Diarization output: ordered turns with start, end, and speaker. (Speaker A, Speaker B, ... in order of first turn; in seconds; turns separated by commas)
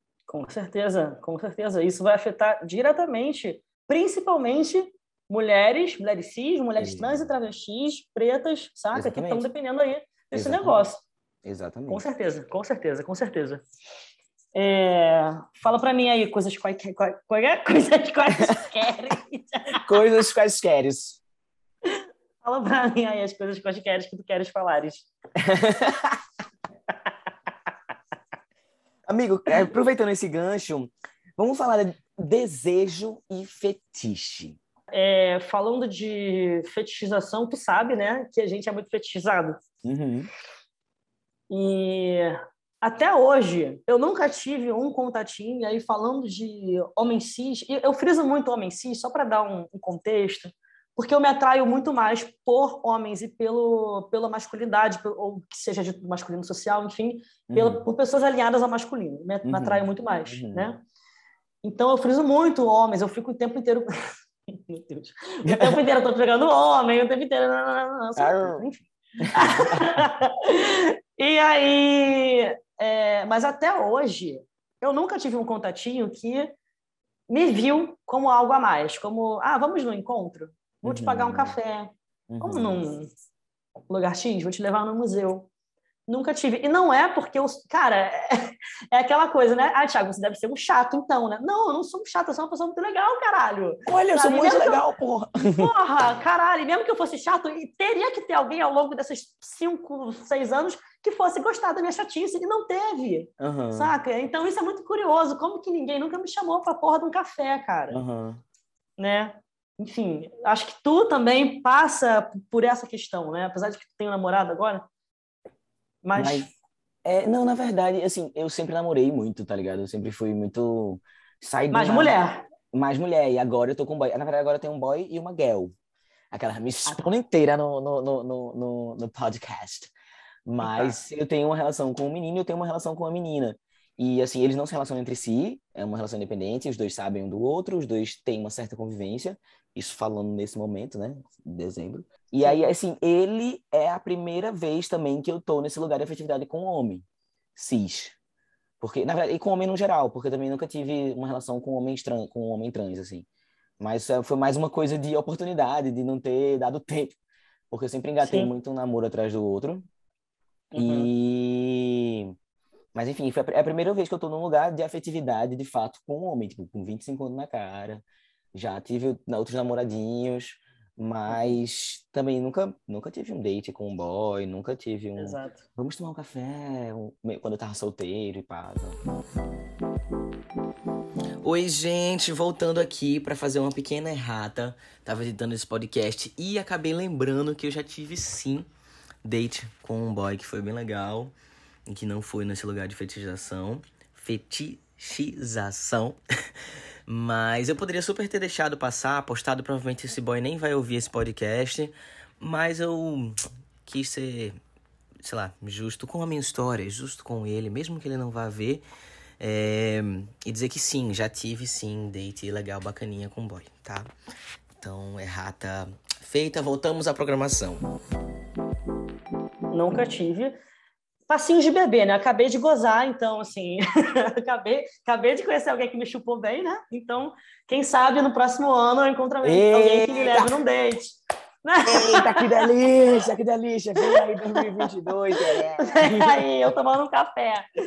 Speaker A: 0.3-11.0, Speaker B: 6.8-7.3, Speaker B: 8.9-9.5, Speaker B: 10.3-10.8, Speaker B: 11.4-12.0, Speaker A: 11.9-13.6, Speaker A: 14.5-19.9, Speaker B: 19.8-21.2, Speaker A: 21.9-25.1, Speaker B: 25.4-26.2, Speaker B: 29.1-34.6, Speaker A: 34.9-39.6, Speaker B: 39.8-40.3, Speaker A: 41.5-60.8, Speaker B: 57.5-57.8, Speaker B: 59.4-60.7, Speaker A: 61.6-63.9, Speaker A: 64.7-76.5, Speaker B: 65.5-65.8, Speaker B: 68.2-68.7, Speaker B: 69.2-70.1, Speaker A: 77.3-83.1, Speaker B: 80.8-81.5, Speaker B: 82.3-82.8, Speaker A: 83.9-85.5, Speaker A: 86.1-94.8, Speaker B: 93.8-95.7, Speaker A: 95.5-108.0, Speaker B: 103.4-103.9, Speaker B: 107.9-108.4, Speaker A: 109.0-114.8, Speaker A: 116.0-116.5, Speaker B: 116.2-116.5, Speaker B: 117.0-122.2, Speaker A: 121.7-122.5, Speaker B: 122.7-125.7, Speaker B: 126.3-129.9, Speaker B: 130.4-148.2, Speaker A: 130.6-130.9, Speaker A: 142.4-142.7, Speaker B: 148.8-153.3, Speaker B: 153.8-157.2, Speaker B: 157.7-159.8, Speaker A: 158.2-158.5, Speaker A: 160.7-161.1, Speaker B: 160.8-162.3, Speaker B: 162.9-168.0, Speaker B: 168.5-179.0, Speaker A: 171.3-171.6, Speaker A: 175.2-175.7, Speaker B: 181.4-188.7, Speaker B: 189.2-191.3, Speaker B: 191.9-196.2, Speaker B: 197.1-204.6, Speaker B: 205.2-208.8, Speaker B: 209.4-214.1, Speaker B: 214.8-217.8, Speaker A: 219.7-220.6, Speaker A: 221.3-232.7, Speaker B: 229.4-230.5, Speaker B: 231.9-236.4, Speaker A: 234.0-234.8, Speaker A: 235.4-237.7